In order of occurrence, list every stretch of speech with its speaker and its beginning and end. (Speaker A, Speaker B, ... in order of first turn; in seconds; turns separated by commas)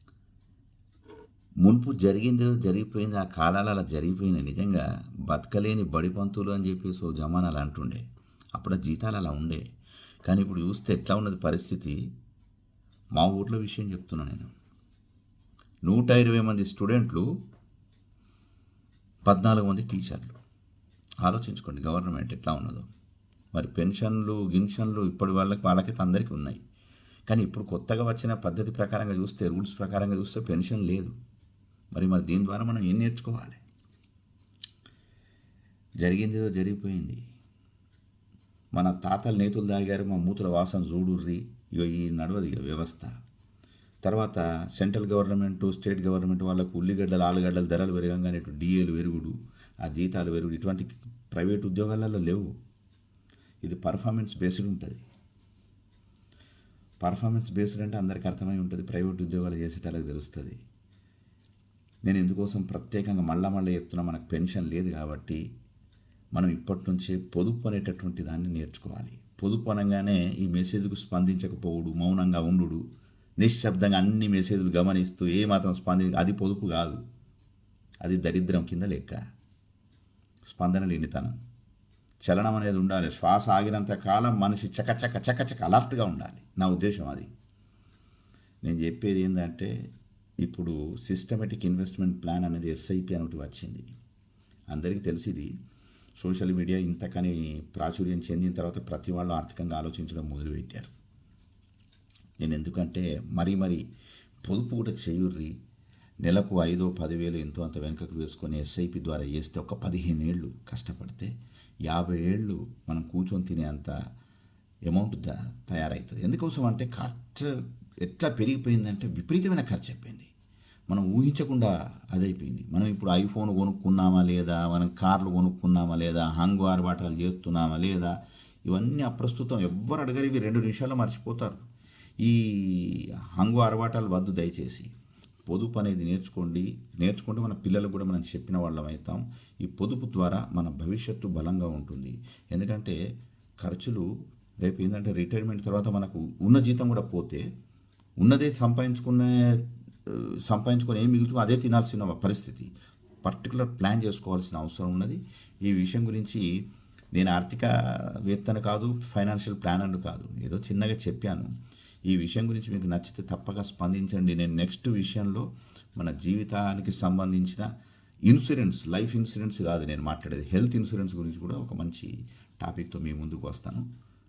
Speaker A: 1.6-8.0, Speaker A: 8.5-9.6, Speaker A: 10.2-12.0, Speaker A: 13.1-14.5, Speaker A: 15.8-17.3, Speaker A: 19.2-20.3, Speaker A: 21.2-22.9, Speaker A: 23.5-26.6, Speaker A: 27.3-31.1, Speaker A: 31.9-33.6, Speaker A: 36.0-37.2, Speaker A: 38.7-43.1, Speaker A: 44.0-52.5, Speaker A: 53.6-55.0, Speaker A: 57.0-60.6, Speaker A: 62.0-65.4, Speaker A: 66.3-72.8, Speaker A: 73.4-77.0, Speaker A: 78.0-79.2, Speaker A: 80.5-81.4, Speaker A: 82.2-87.3, Speaker A: 88.6-89.7, Speaker A: 90.4-93.9, Speaker A: 94.7-95.5, Speaker A: 96.2-100.9, Speaker A: 102.4-103.8, Speaker A: 104.4-105.5, Speaker A: 106.2-111.3, Speaker A: 111.9-113.9, Speaker A: 114.9-120.3, Speaker A: 120.9-128.1, Speaker A: 128.7-131.6, Speaker A: 132.2-134.9, Speaker A: 135.5-143.0, Speaker A: 143.6-144.1, Speaker A: 144.6-147.4, Speaker A: 148.2-152.7, Speaker A: 153.2-156.4, Speaker A: 157.1-161.5, Speaker A: 162.1-165.4, Speaker A: 166.0-167.7, Speaker A: 168.3-173.8